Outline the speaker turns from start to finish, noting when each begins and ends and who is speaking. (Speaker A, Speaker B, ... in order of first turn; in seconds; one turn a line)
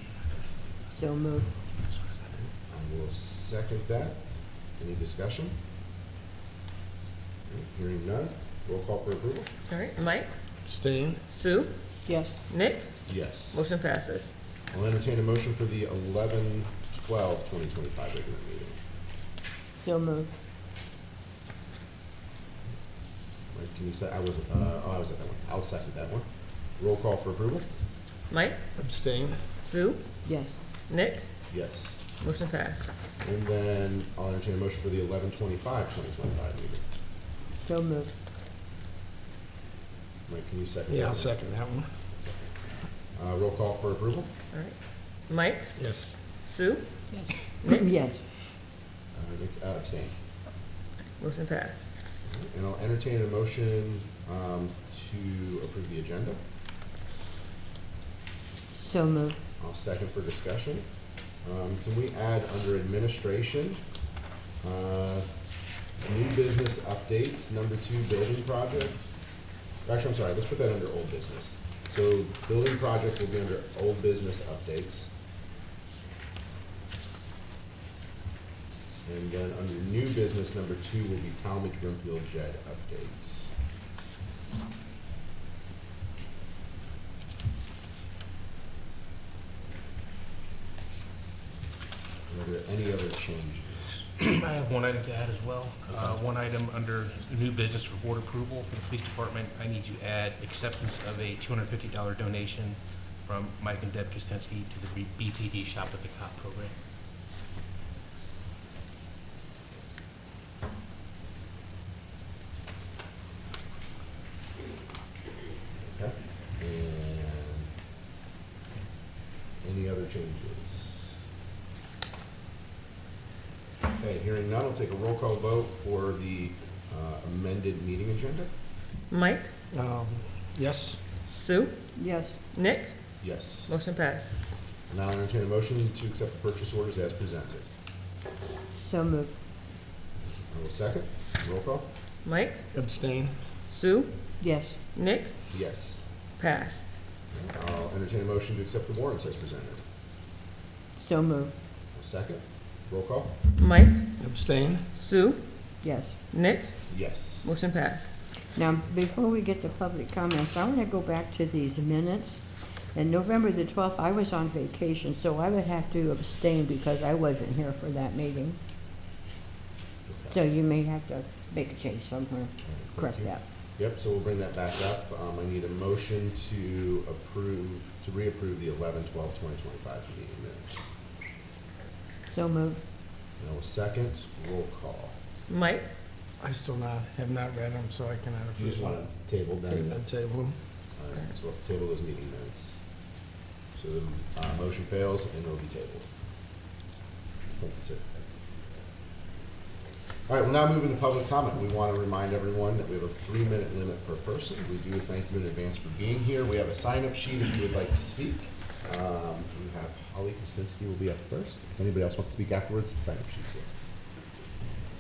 Speaker A: 0.9-1.5
Speaker B: 2.7-4.2
Speaker B: 4.8-5.6
Speaker B: 7.5-9.5
Speaker C: 9.7-10.3
Speaker D: 10.7-11.2
Speaker C: 11.3-11.9
Speaker A: 12.1-12.4
Speaker C: 12.5-14.3
Speaker B: 13.1-13.6
Speaker B: 14.7-18.8
Speaker A: 19.8-20.3
Speaker B: 23.5-27.7
Speaker C: 28.3-28.6
Speaker D: 28.8-29.4
Speaker C: 29.6-30.1
Speaker A: 30.2-30.6
Speaker C: 30.9-31.2
Speaker B: 31.5-32.0
Speaker C: 32.2-32.9
Speaker B: 33.2-36.8
Speaker A: 37.6-38.1
Speaker B: 40.3-41.3
Speaker D: 40.9-41.9
Speaker B: 43.1-44.3
Speaker C: 44.5-45.8
Speaker D: 45.8-46.2
Speaker C: 46.3-47.9
Speaker A: 47.1-48.2
Speaker B: 49.1-50.2
Speaker C: 51.2-51.9
Speaker B: 52.2-56.4
Speaker A: 58.8-59.4
Speaker B: 59.6-60.9
Speaker B: 61.4-63.8
Speaker B: 64.6-65.3
Speaker B: 66.0-69.2
Speaker B: 69.8-75.1
Speaker B: 79.0-83.5
Speaker B: 92.3-94.0
Speaker E: 94.2-106.7
Speaker B: 115.8-117.7
Speaker B: 119.6-121.1
Speaker B: 124.0-128.5
Speaker C: 129.1-129.5
Speaker D: 129.7-131.0
Speaker C: 131.3-131.8
Speaker A: 132.0-132.4
Speaker C: 132.5-132.9
Speaker B: 133.2-133.7
Speaker C: 133.7-134.3
Speaker B: 134.9-137.7
Speaker A: 138.8-139.3
Speaker B: 140.5-141.9
Speaker C: 142.2-142.6
Speaker D: 142.7-143.4
Speaker C: 143.7-144.2
Speaker A: 144.4-144.8
Speaker C: 144.9-145.3
Speaker B: 145.5-146.0
Speaker C: 146.4-146.9
Speaker B: 147.3-149.8
Speaker A: 151.0-151.5
Speaker B: 152.0-153.4
Speaker C: 153.6-154.2
Speaker D: 154.2-154.9
Speaker C: 154.9-155.4
Speaker A: 155.8-156.2
Speaker C: 156.3-156.7
Speaker B: 156.9-157.5
Speaker C: 157.4-158.1
Speaker A: 158.6-162.4
Speaker A: 162.9-168.6
Speaker B: 170.1-170.4
Speaker A: 170.3-173.4
Speaker B: 172.6-180.8
Speaker A: 182.3-182.8
Speaker B: 183.4-185.2
Speaker C: 185.5-185.9
Speaker D: 186.4-189.0
Speaker B: 188.6-190.0
Speaker D: 189.7-190.6
Speaker B: 190.9-192.8
Speaker B: 193.7-196.1
Speaker B: 197.6-198.1
Speaker B: 200.3-213.7